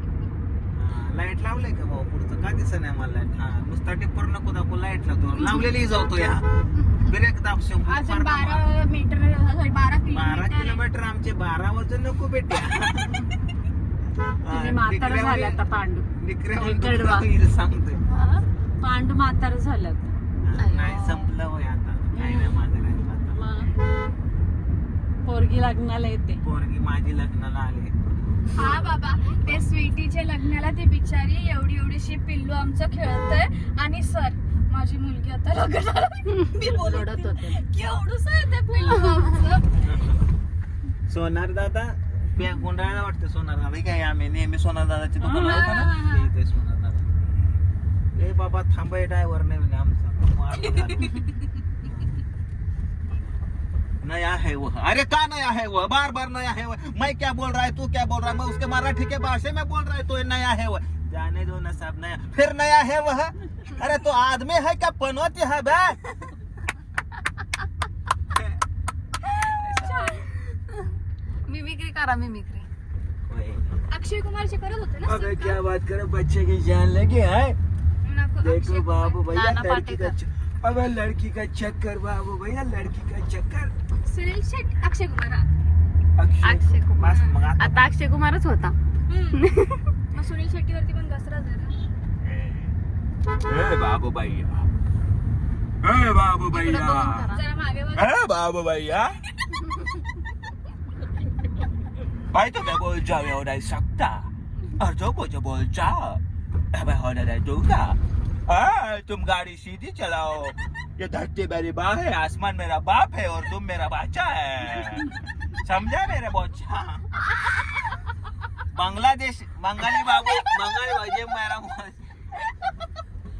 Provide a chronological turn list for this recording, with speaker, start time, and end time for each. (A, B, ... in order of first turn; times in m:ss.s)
0:00.7-0:06.5 A
0:05.4-0:05.6 B
0:07.0-0:08.6 A
0:07.9-0:10.8 B
0:10.1-0:13.3 A
0:14.4-0:15.6 A
0:14.5-0:17.3 C
0:16.2-0:18.0 A
0:18.1-0:18.4 D
0:18.8-0:20.1 C
0:20.4-0:23.4 A
0:20.6-0:21.3 D
0:22.1-0:22.6 C
0:23.4-0:23.7 D
0:25.2-0:26.4 C
0:26.4-0:27.9 A
0:28.5-0:39.8 B
0:36.6-0:37.6 C
0:39.8-0:40.2 A
0:41.1-0:47.1 A
0:45.2-0:45.8 C
0:45.3-0:46.3 B
0:48.1-0:51.2 A
0:50.7-0:51.4 B
0:54.0-1:06.0 A
1:09.6-1:10.2 A
1:09.8-1:10.9 D
1:11.5-1:12.7 D
1:13.3-1:13.8 A
1:13.9-1:15.6 B
1:15.0-1:17.6 A
1:18.0-1:19.3 B
1:18.4-1:23.7 A
1:19.3-1:20.2 D
1:24.0-1:25.5 B
1:26.2-1:27.8 A
1:26.4-1:28.7 D
1:29.1-1:29.5 B
1:29.3-1:29.9 D
1:30.1-1:31.8 B
1:33.5-1:34.7 A
1:35.8-1:37.3 A
1:36.5-1:37.4 D
1:37.3-1:38.2 B
1:37.9-1:39.1 A
1:42.3-1:46.2 A
1:46.7-1:57.0 A
1:58.7-2:02.0 A